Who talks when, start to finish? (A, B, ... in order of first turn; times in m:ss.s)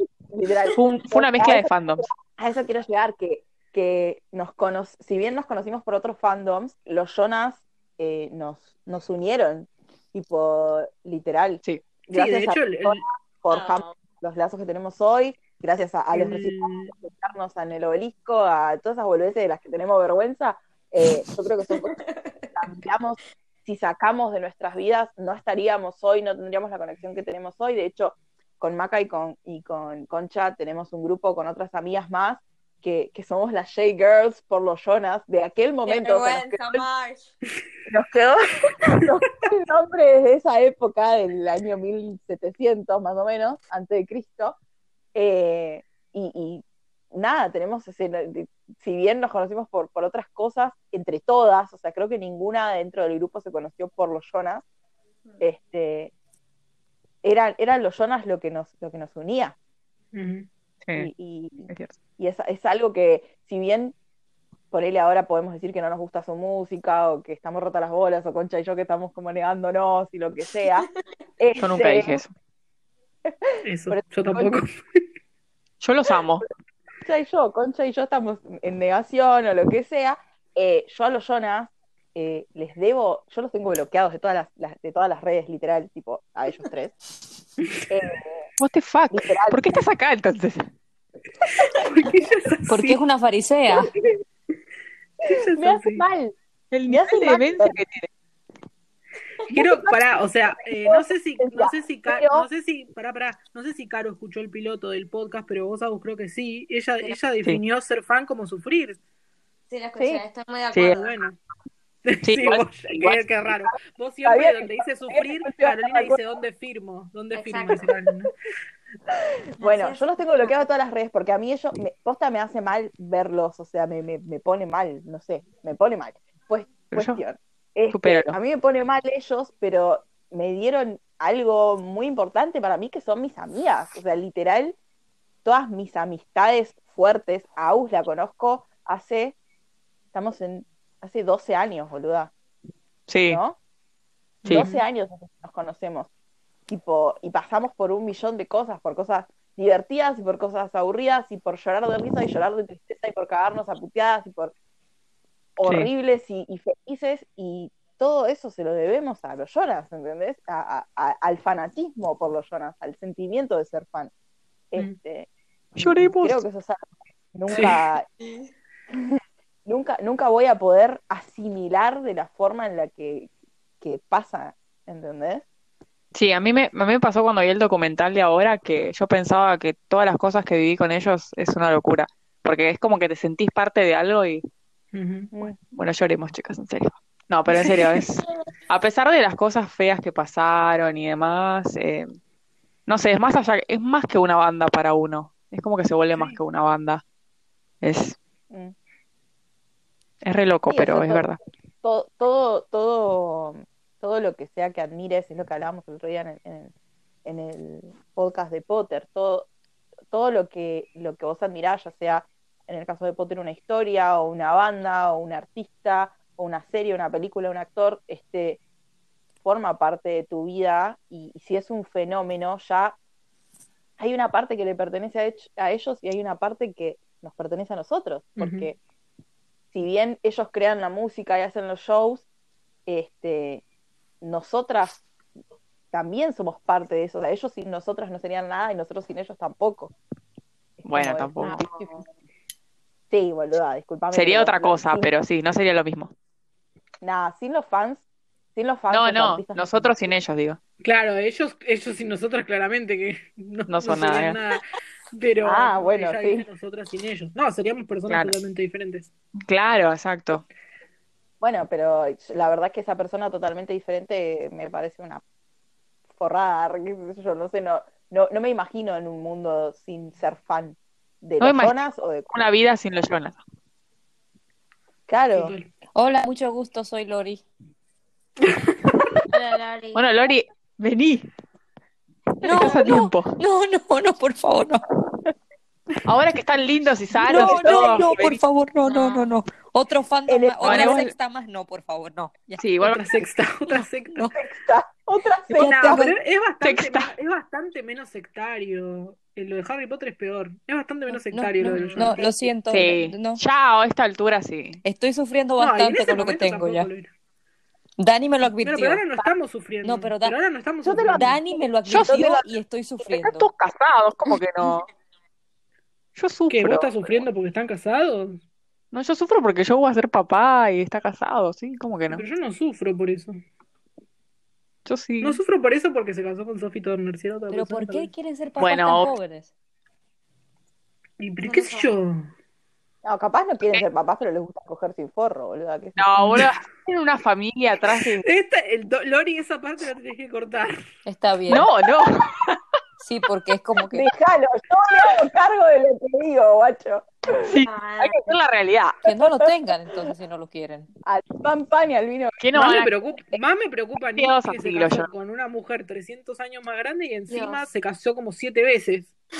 0:00.3-0:22.0 A
0:00.7-0:02.1 B
0:12.1-0:13.0 C
0:13.5-0:13.9 D
0:16.1-0:16.9 C
0:21.7-0:22.6 D
0:22.6-0:36.9 A
0:35.9-0:37.4 D
0:37.9-0:44.6 A
0:45.2-0:54.6 A
0:55.4-0:56.1 A
0:57.2-0:59.6 A
1:00.1-1:00.5 C
1:01.0-1:04.0 A
1:01.7-1:02.0 B
1:04.7-1:10.9 A
1:11.4-1:12.2 A
1:11.6-1:12.3 B
1:13.6-1:14.8 C
1:13.9-1:14.6 A
1:15.8-1:16.5 B
1:17.0-1:27.0 A
1:27.9-1:28.5 A
1:28.6-1:30.7 B
1:29.1-1:29.8 A
1:31.7-1:33.0 C
1:32.7-1:33.9 E
1:33.7-1:34.2 A
1:35.3-1:36.0 C
1:35.5-1:36.4 A
1:36.7-1:38.1 B
1:36.9-1:37.8 A
1:39.5-1:40.0 A
1:39.5-1:49.0 C
1:40.7-1:42.5 A
1:49.7-1:51.1 D
1:50.0-1:50.2 A
1:50.7-1:51.0 B
1:50.9-1:51.4 C
1:52.0-1:58.3 C
1:52.2-1:53.2 B
1:54.2-1:56.3 A
1:57.4-1:57.9 D
1:59.1-2:14.8 A
1:59.6-2:00.6 D
2:06.9-2:07.2 B
2:07.9-2:08.4 B
2:15.4-2:19.4 A
2:20.1-2:22.3 A
2:23.1-2:23.4 B
2:23.3-2:23.6 A
2:24.4-2:26.1 A
2:24.5-2:24.8 C
2:26.7-2:34.5 A
2:35.6-2:44.1 A
2:35.6-2:35.9 B
2:44.7-2:48.1 A
2:45.8-2:46.4 B
2:47.5-2:47.8 C
2:48.9-2:53.3 A
2:53.8-2:55.4 A
2:56.1-3:04.4 B
3:04.9-3:05.3 C
3:05.7-3:12.1 B
3:12.9-3:17.0 B
3:16.1-3:16.4 C
3:17.8-3:18.2 B
3:18.5-3:18.8 A
3:20.2-3:21.4 B
3:20.7-3:21.3 A
3:21.8-3:26.7 A
3:27.2-3:29.5 A
3:30.1-3:38.6 A
3:39.4-3:43.0 A
3:44.0-3:48.8 A
3:48.4-3:48.7 C
3:49.7-3:52.2 A
3:52.9-3:53.6 A
3:54.2-3:55.0 A
3:55.9-3:59.9 A
4:00.8-4:02.0 A
4:00.8-4:01.6 B
4:01.4-4:02.0 D
4:03.1-4:05.1 A
4:04.1-4:06.1 B
4:07.0-4:08.0 A
4:08.6-4:10.1 A
4:08.9-4:10.6 B
4:10.8-4:19.1 C
4:13.7-4:14.4 B
4:15.4-4:16.4 A
4:18.1-4:18.4 B
4:19.4-4:20.4 B
4:21.4-4:25.2 A
4:26.2-4:32.4 A
4:31.4-4:31.8 B
4:32.3-4:33.4 B
4:35.1-4:35.5 A
4:35.3-4:35.7 C
4:36.0-4:37.4 E
4:39.3-4:40.1 D
4:40.0-4:41.3 B
4:42.4-4:44.8 E
4:42.4-4:43.4 B
4:46.0-4:48.4 B
4:47.2-4:52.6 E
4:47.3-4:48.1 A
4:48.8-4:49.3 D
4:50.3-4:51.0 A
4:50.6-4:51.1 B
4:52.6-4:53.1 B
4:52.8-4:54.3 C
4:54.3-4:56.0 A
4:55.5-4:56.1 E
4:55.5-5:02.5 C
4:56.6-4:57.1 B
5:01.1-5:03.4 E
5:01.8-5:02.1 A
5:02.7-5:04.8 B
5:04.8-5:06.9 E
5:05.6-5:07.1 C
5:08.0-5:09.0 E
5:08.6-5:11.3 C
5:09.8-5:10.4 E
5:10.8-5:11.4 A
5:11.1-5:13.5 E
5:11.9-5:12.4 B
5:12.0-5:12.4 A
5:13.0-5:14.9 B
5:16.2-5:17.2 B
5:16.5-5:18.4 C
5:18.9-5:22.2 B
5:22.1-5:23.4 C
5:24.8-5:25.4 B
5:25.2-5:28.1 C
5:27.5-5:29.5 E
5:28.6-5:29.1 B
5:31.2-5:32.3 C
5:31.4-5:32.0 D
5:33.0-5:36.4 A
5:36.0-5:38.3 B
5:38.0-5:40.8 C
5:41.1-5:41.7 E
5:41.5-5:42.6 B
5:43.0-5:44.1 E
5:43.9-5:47.6 A
5:47.5-5:48.9 B
5:47.6-5:48.2 D
5:49.0-5:49.7 A
5:49.0-5:50.9 E
5:51.1-5:52.4 A
5:52.4-5:53.0 B
5:52.5-5:59.1 C
5:54.1-5:55.1 B
5:57.3-5:57.7 D